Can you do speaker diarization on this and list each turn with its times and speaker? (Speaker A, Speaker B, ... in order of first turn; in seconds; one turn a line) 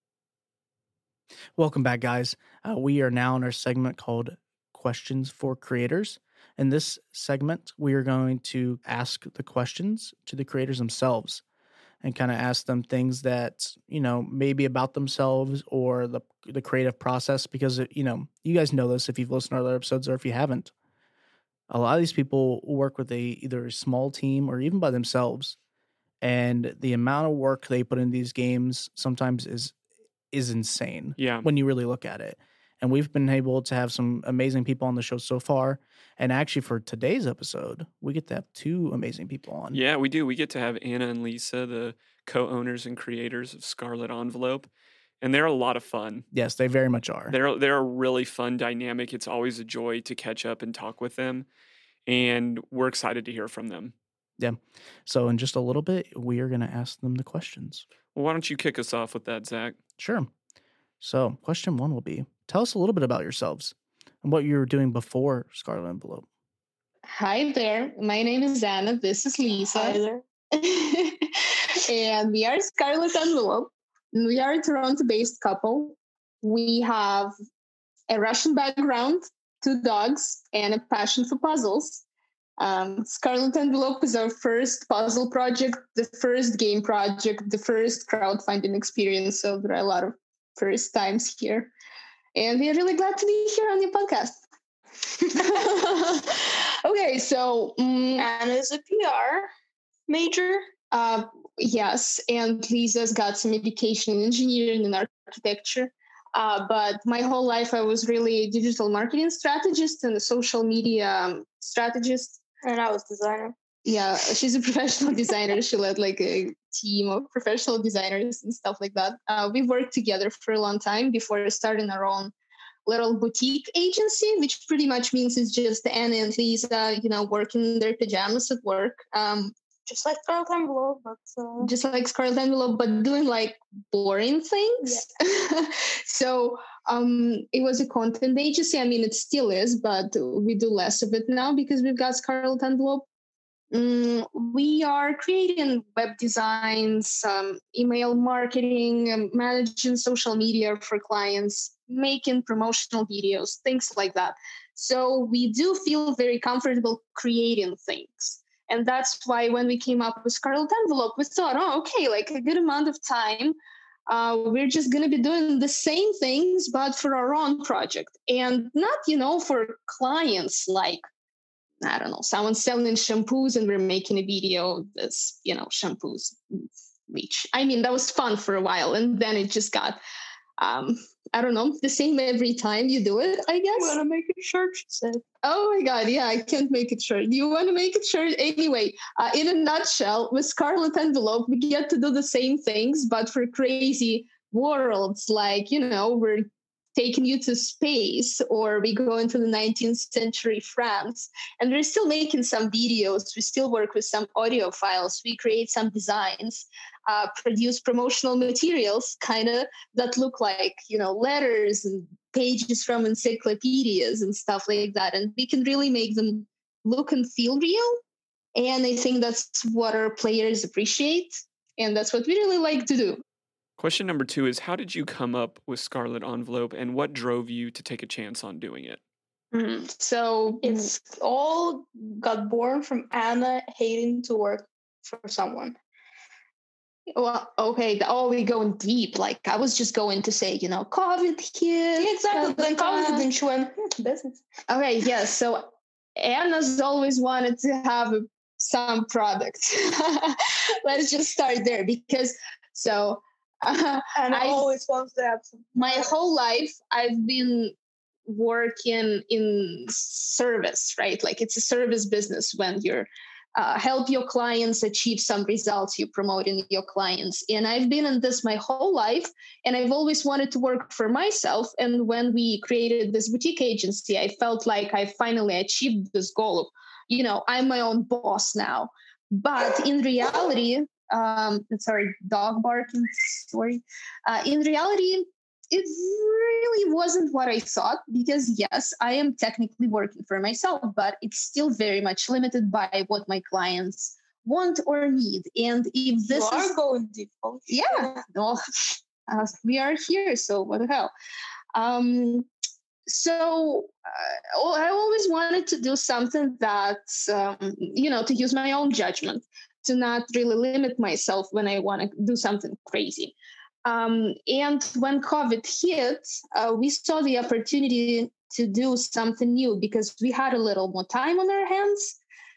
Speaker A: 1.6-11.4
Speaker A: 12.0-20.7
Speaker A: 21.7-25.6
Speaker A: 26.2-29.8
Speaker A: 30.3-39.8
Speaker B: 31.2-31.5
Speaker B: 39.7-44.7
Speaker B: 45.2-46.3
Speaker A: 46.3-47.3
Speaker B: 47.3-51.5
Speaker B: 52.1-53.9
Speaker A: 54.4-57.9
Speaker B: 58.1-59.8
Speaker A: 60.0-60.3
Speaker A: 61.0-66.3
Speaker C: 67.1-70.0
Speaker D: 69.7-70.2
Speaker C: 70.5-71.3
Speaker C: 71.8-77.3
Speaker C: 78.1-82.0
Speaker C: 82.6-91.7
Speaker C: 92.3-94.4
Speaker C: 95.3-98.3
Speaker D: 98.2-99.5
Speaker D: 100.1-100.7
Speaker C: 100.9-112.4
Speaker D: 112.6-113.5
Speaker C: 113.9-122.3
Speaker C: 122.9-129.6
Speaker D: 129.9-131.7
Speaker C: 131.6-143.1
Speaker C: 143.7-163.6
Speaker C: 164.1-171.0
Speaker C: 171.8-180.0
Speaker C: 180.6-184.0
Speaker D: 183.7-185.2
Speaker C: 185.4-218.0
Speaker C: 218.6-223.2
Speaker B: 223.8-229.0
Speaker C: 229.6-230.9
Speaker D: 230.6-235.8
Speaker C: 237.2-243.3
Speaker D: 242.0-244.4
Speaker C: 244.7-254.7
Speaker D: 254.1-256.1
Speaker C: 255.8-257.8
Speaker C: 258.3-296.8
Speaker D: 296.3-298.3
Speaker C: 297.7-301.1
Speaker C: 301.7-302.5
Speaker C: 303.1-322.2